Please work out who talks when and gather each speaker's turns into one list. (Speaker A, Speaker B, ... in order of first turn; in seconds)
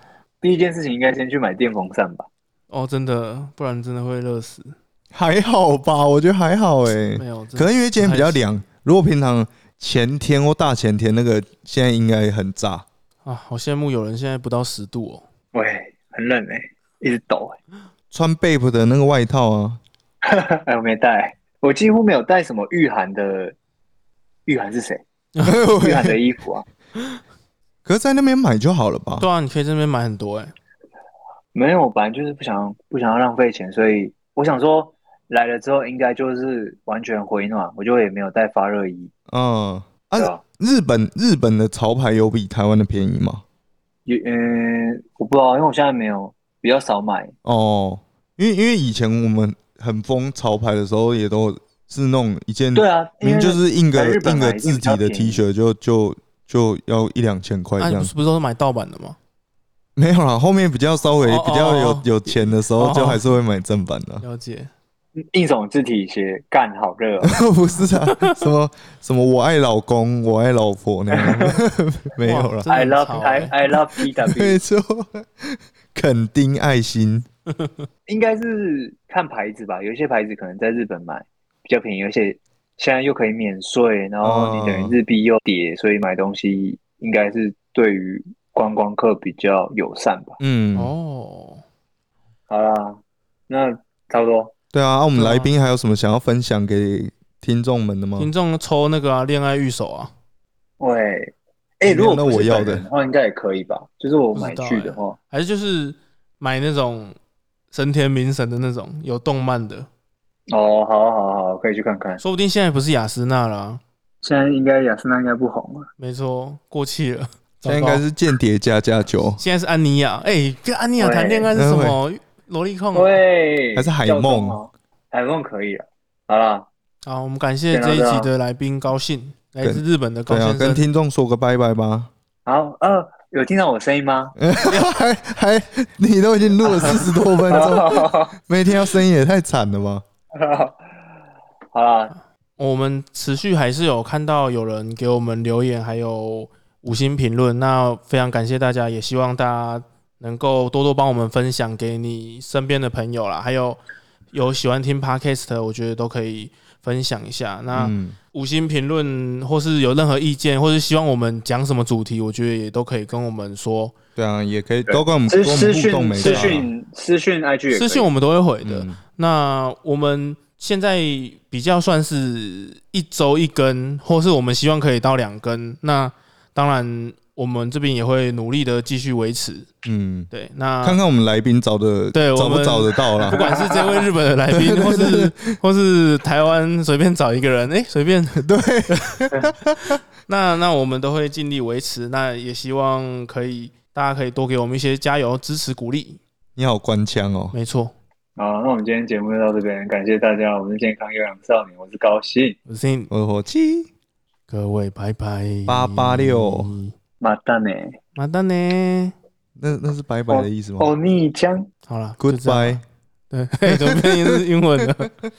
Speaker A: 0.4-2.3, 15.5-17.6, 20.2-23.6, 24.5-25.0, 25.8-26.6, 31.5-39.1, 44.1-47.3, 52.8-55.4, 65.2-67.4, 71.1-71.6, 72.7-74.6, 78.1-90.4, 92.5-94.5, 100.8-105.2, 110.5-112.2, 114.2-115.9, 121.0-121.5, 122.9-126.7, 127.7-128.3, 132.5-134.3, 136.6-138.3, 140.3-140.8, 141.7-142.1, 164.8-168.1, 183.3-184.1, 198.4-202.6, 207.2-208.0, 210.3-211.7
Speaker B: 2.7-4.8, 7.2-8.4, 13.2-15.2, 29.2-30.5, 57.8-59.2, 61.2-62.2, 62.8-63.2, 64.2-64.7, 68.1-68.4, 72.2-73.5, 77.6-77.9, 90.8-91.6, 95.1-95.5, 98.2-100.1, 104.3-107.2, 107.7-109.9, 112.2-113.8, 116.0-118.0, 119.4-123.2, 127.0-130.8, 142.6-153.8, 154.3-163.9, 166.2-166.6, 167.7-179.7, 180.3-181.0, 182.1-189.3, 190.3-196.2, 197.5-197.9, 202.7-203.1, 204.5-206.9, 208.2-209.1, 211.9-215.1
Speaker C: 5.1-12.8, 18.1-19.8, 25.4-26.2, 27.9-29.3, 39.3-43.4, 47.4-58.1, 60.0-64.2, 67.2-72.7, 74.3-77.3, 84.2-85.0, 90.4-90.9, 94.7-98.3, 101.8-102.9, 117.7-119.4, 121.5-122.0, 123.8-124.6, 129.6-132.1, 134.4-140.0, 157.7-158.2, 164.2-166.7, 168.6-169.0, 179.8-180.3, 180.8-183.4, 184.5-185.5, 188.4-190.0, 196.6-197.6, 203.1-203.9, 205.7-206.7, 209.6-210.9, 212.2-212.8, 213.7-214.4